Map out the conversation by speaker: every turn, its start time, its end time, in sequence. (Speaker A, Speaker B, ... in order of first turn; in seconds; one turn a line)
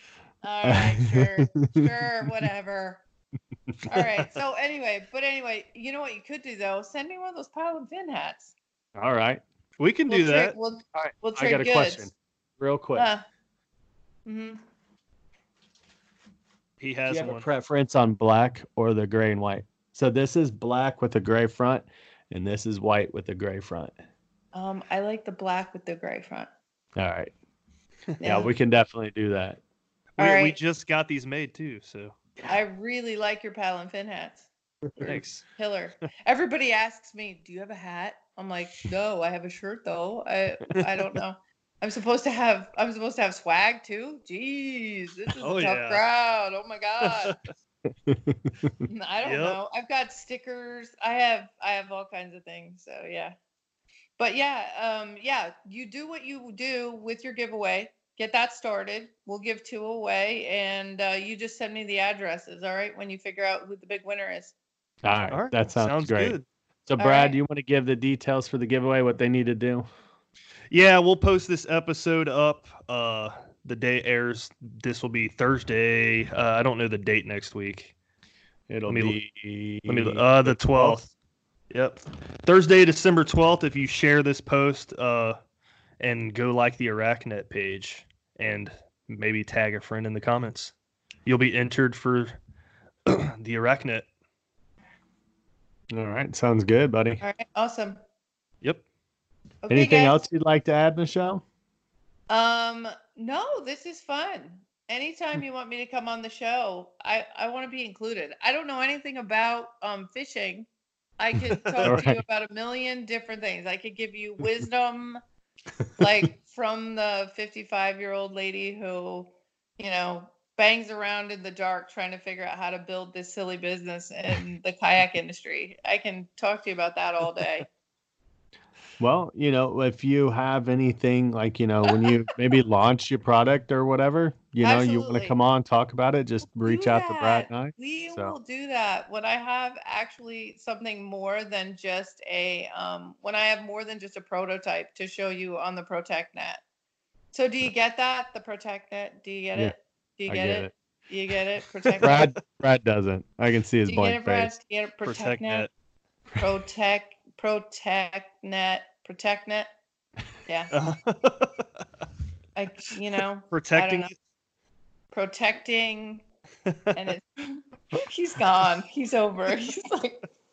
Speaker A: 0.4-3.0
Speaker B: 0.7-1.7
Speaker A: 3.9-8.5
Speaker B: 8.9-9.4
Speaker C: 9.8-10.6
Speaker A: 10.1-12.1
Speaker B: 10.9-13.1
Speaker A: 13.0-13.2
Speaker A: 14.3-14.6
Speaker C: 16.8-17.5
Speaker B: 17.1-23.9
Speaker A: 24.5-26.5
Speaker B: 27.0-27.3
Speaker A: 28.2-28.5
Speaker B: 28.2-29.6
Speaker C: 30.2-32.2
Speaker A: 30.2-30.6
Speaker A: 32.5-34.5
Speaker A: 35.0-47.3
Speaker C: 35.0-35.4
Speaker C: 45.4-46.0
Speaker C: 47.0-47.4
Speaker B: 47.9-48.8
Speaker A: 48.9-53.4
Speaker C: 49.2-49.6
Speaker A: 54.2-64.5
Speaker B: 65.0-69.9
Speaker C: 65.3-66.5
Speaker A: 67.0-67.4
Speaker C: 70.7-78.0
Speaker B: 78.7-81.1
Speaker C: 78.9-79.2
Speaker C: 79.9-81.1
Speaker C: 81.7-85.4
Speaker C: 86.0-90.7
Speaker C: 91.3-92.4
Speaker C: 93.1-94.1
Speaker B: 95.9-97.2
Speaker A: 97.2-98.0
Speaker A: 99.6-100.2
Speaker B: 99.7-101.4
Speaker A: 102.3-110.7
Speaker A: 111.2-115.2
Speaker C: 111.7-112.1
Speaker B: 111.8-112.2
Speaker A: 116.0-127.7
Speaker B: 129.0-138.4
Speaker A: 134.6-135.4
Speaker A: 136.7-146.6
Speaker A: 147.3-152.3
Speaker B: 150.3-150.7
Speaker B: 152.0-154.5
Speaker A: 153.9-155.7
Speaker C: 155.1-155.7
Speaker A: 156.4-159.7
Speaker A: 160.5-160.7
Speaker C: 160.7-161.5
Speaker A: 162.6-164.1
Speaker C: 163.5-164.1
Speaker A: 165.1-166.2
Speaker A: 166.9-170.2